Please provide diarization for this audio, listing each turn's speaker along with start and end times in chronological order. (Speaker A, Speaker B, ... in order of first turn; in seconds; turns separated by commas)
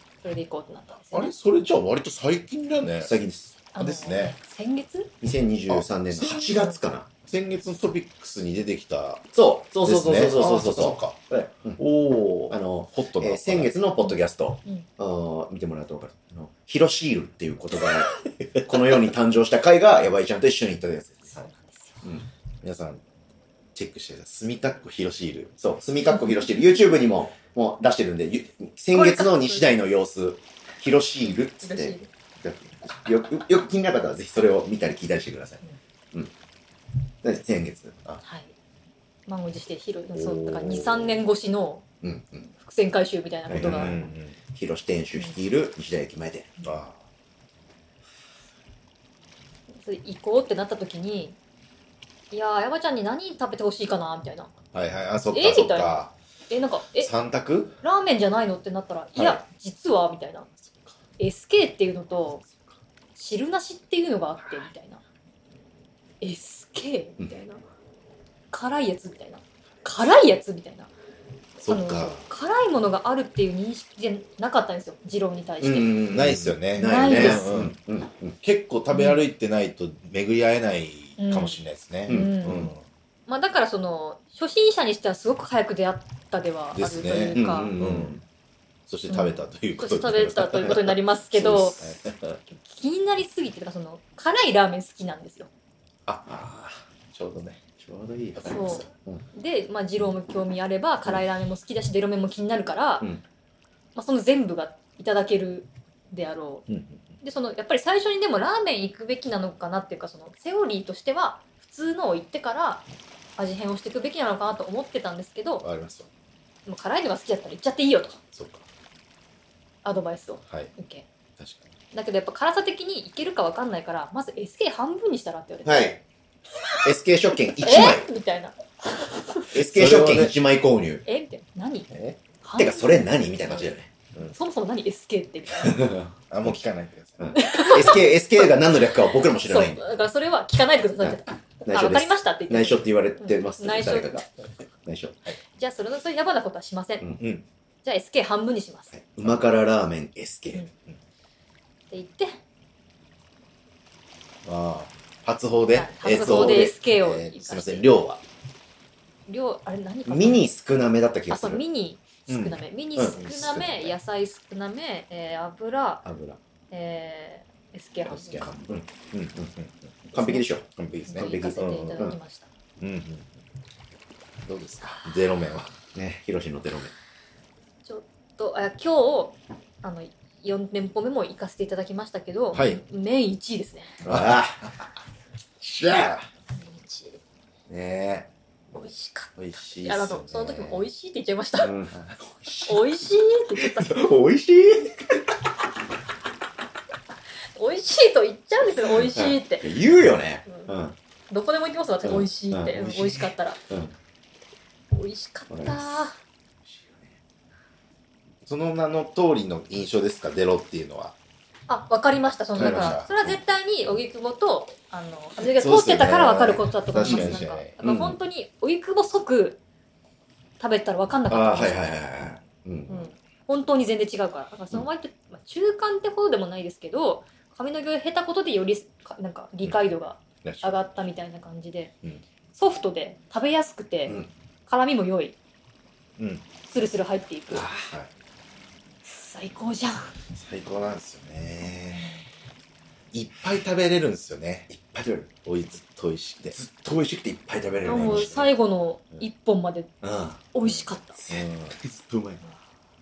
Speaker A: 0.2-1.3, Speaker B: 1.1-3.1, Speaker C: 3.0-3.5, Speaker A: 3.7-5.1, Speaker B: 3.8-4.4, Speaker C: 5.2-7.1, Speaker B: 5.7-6.6, Speaker A: 6.5-6.8, Speaker B: 7.2-9.3, Speaker C: 9.3-11.8, Speaker B: 9.8-11.2, Speaker B: 11.8-13.7, Speaker C: 12.5-21.4, Speaker A: 14.0-14.9, Speaker A: 21.3-22.0, Speaker B: 22.6-23.0, Speaker B: 23.8-25.5, Speaker C: 25.6-35.6, Speaker A: 28.9-29.7, Speaker A: 31.6-32.1, Speaker C: 37.2-38.0, Speaker A: 38.2-38.5, Speaker A: 39.3-41.9, Speaker B: 40.1-41.2, Speaker C: 42.0-42.5, Speaker A: 42.5-44.0, Speaker C: 43.5-44.0, Speaker B: 43.6-44.4, Speaker C: 44.5-46.5, Speaker B: 46.6-47.0, Speaker A: 49.8-51.4, Speaker A: 52.3-54.5, Speaker B: 54.7-56.1, Speaker A: 55.3-57.1, Speaker B: 57.0-57.8, Speaker A: 57.8-60.5, Speaker B: 60.6-61.0, Speaker A: 61.2-62.4, Speaker A: 63.2-65.0, Speaker A: 66.2-67.6, Speaker A: 68.5-70.9, Speaker B: 71.6-72.2, Speaker A: 71.7-76.0, Speaker C: 75.6-78.4, Speaker B: 76.1-77.8, Speaker A: 76.8-77.5, Speaker B: 78.4-82.8, Speaker A: 78.9-79.2, Speaker A: 81.2-82.7, Speaker C: 82.1-82.6, Speaker A: 83.3-87.7, Speaker B: 86.7-88.2, Speaker C: 87.3-88.2, Speaker B: 88.9-92.2, Speaker A: 89.1-91.9, Speaker A: 92.6-95.5, Speaker B: 96.1-97.6, Speaker C: 97.8-99.2, Speaker B: 98.4-98.9, Speaker A: 98.4-103.1, Speaker A: 104.0-106.7, Speaker B: 106.7-107.0, Speaker A: 107.2-112.9, Speaker A: 113.4-115.7, Speaker B: 115.6-116.1, Speaker A: 116.7-118.2, Speaker B: 118.3-118.7, Speaker A: 119.8-121.1, Speaker B: 120.5-120.7, Speaker B: 121.4-121.7, Speaker A: 121.9-126.0, Speaker C: 125.7-126.0, Speaker A: 126.6-126.9, Speaker C: 126.8-128.1, Speaker A: 127.5-129.5, Speaker C: 129.5-131.1, Speaker B: 129.6-130.4, Speaker A: 131.1-135.8, Speaker B: 131.9-132.2, Speaker C: 132.6-133.9, Speaker C: 135.6-136.6, Speaker B: 136.1-137.3, Speaker C: 137.2-139.8, Speaker A: 137.3-144.3, Speaker C: 141.0-144.3, Speaker C: 144.8-145.2, Speaker A: 145.6-147.1, Speaker B: 147.2-147.5, Speaker A: 147.8-148.9, Speaker C: 148.9-150.7, Speaker A: 151.9-152.4, Speaker B: 154.4-158.2, Speaker A: 155.7-157.9, Speaker C: 156.2-156.6, Speaker A: 159.3-160.5, Speaker C: 160.1-161.6, Speaker A: 161.3-166.1, Speaker B: 162.3-162.6, Speaker C: 163.0-163.3, Speaker B: 163.1-163.9, Speaker C: 166.1-166.4, Speaker A: 166.7-168.5, Speaker B: 168.1-169.9, Speaker C: 168.7-169.5, Speaker C: 170.1-172.2, Speaker A: 170.2-170.4, Speaker B: 170.7-172.0, Speaker A: 171.1-172.5, Speaker B: 172.8-173.3, Speaker B: 174.4-175.7, Speaker C: 175.9-176.9, Speaker A: 177.8-184.0, Speaker B: 182.5-182.8, Speaker C: 184.0-184.6, Speaker B: 184.1-184.9, Speaker B: 185.6-186.2, Speaker A: 186.5-187.2, Speaker B: 187.7-188.3, Speaker A: 188.8-191.7, Speaker B: 189.4-190.8, Speaker C: 191.6-191.9, Speaker B: 191.9-192.8, Speaker A: 192.7-194.0, Speaker C: 193.6-195.2, Speaker A: 197.6-199.7, Speaker C: 199.1-200.9, Speaker A: 200.5-200.7, Speaker A: 201.3-203.6, Speaker C: 202.1-203.9, Speaker A: 204.9-206.2, Speaker C: 205.5-206.0, Speaker B: 208.4-211.2, Speaker A: 211.7-219.6, Speaker B: 212.6-213.3, Speaker C: 212.6-212.9, Speaker B: 215.4-217.8, Speaker C: 217.0-218.2, Speaker A: 220.6-221.9, Speaker C: 221.3-223.1, Speaker A: 222.9-231.9, Speaker B: 230.4-230.8, Speaker A: 232.5-235.4, Speaker B: 236.2-236.4, Speaker A: 236.7-237.7, Speaker B: 237.5-238.1, Speaker A: 239.1-240.2, Speaker B: 240.3-242.2, Speaker B: 243.1-244.7, Speaker C: 244.7-245.3, Speaker B: 245.4-246.6, Speaker C: 246.5-248.5, Speaker A: 247.8-249.9, Speaker C: 250.0-250.4, Speaker A: 250.5-251.2, Speaker C: 251.2-252.4, Speaker B: 251.3-251.8